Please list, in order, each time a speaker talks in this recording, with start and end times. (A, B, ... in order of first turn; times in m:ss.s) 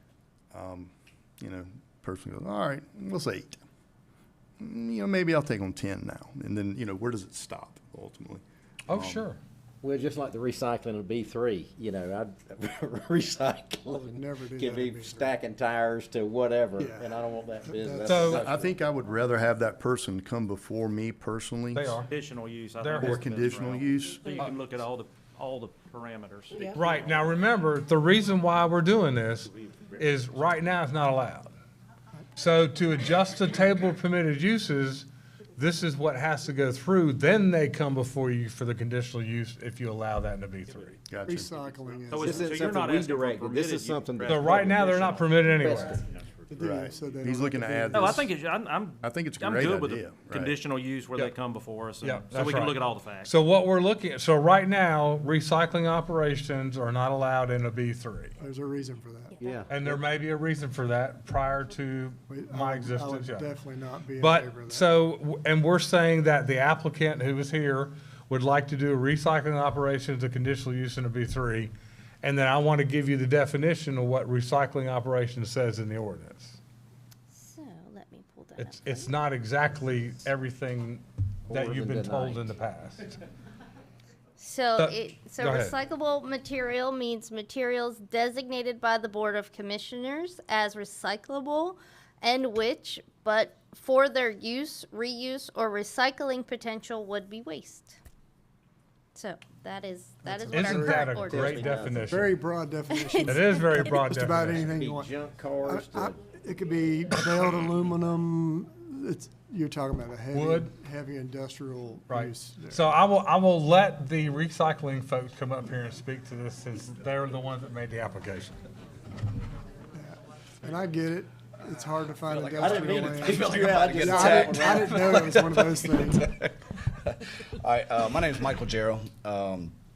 0:00.5-0:03.6 A
0:04.6-0:09.3 A
0:08.9-0:09.4 B
0:09.8-0:18.7 C
0:13.9-0:15.3 D
0:16.8-0:17.1 D
0:17.6-0:18.4 D
0:18.0-0:18.5 B
0:18.2-0:22.0 A
0:21.7-0:22.1 B
0:22.1-0:27.2 E
0:22.8-0:23.2 B
0:23.0-0:24.3 A
0:26.7-0:31.5 B
0:32.4-0:41.0 B
0:41.1-0:41.5 A
0:41.3-0:42.7 D
0:42.1-0:46.2 E
0:42.2-0:46.0 C
0:44.2-0:46.0 B
0:46.5-0:48.2 D
0:46.6-0:48.3 A
0:47.9-0:53.3 E
0:49.0-0:50.6 A
0:52.0-0:58.4 B
0:58.4-0:59.3 D
0:59.4-1:00.0 C
0:59.7-1:03.5 B
1:02.3-1:04.9 D
1:04.2-1:11.7 B
1:12.2-1:16.6 B
1:17.3-1:19.1 F
1:18.6-1:23.2 B
1:21.5-1:22.5 C
1:24.4-1:38.0 F
1:24.8-1:25.7 B
1:39.1-1:41.8 F
1:40.3-1:41.1 D
1:40.5-1:42.4 B
1:41.3-1:42.1 C
1:42.1-1:52.9 D
1:42.9-1:43.6 F
1:43.2-1:44.7 B
1:44.6-1:46.2 C
1:50.3-1:50.7 B
1:52.1-1:58.6 B
1:59.9-2:06.3 D
2:02.2-2:09.7 G
2:02.6-2:04.8 C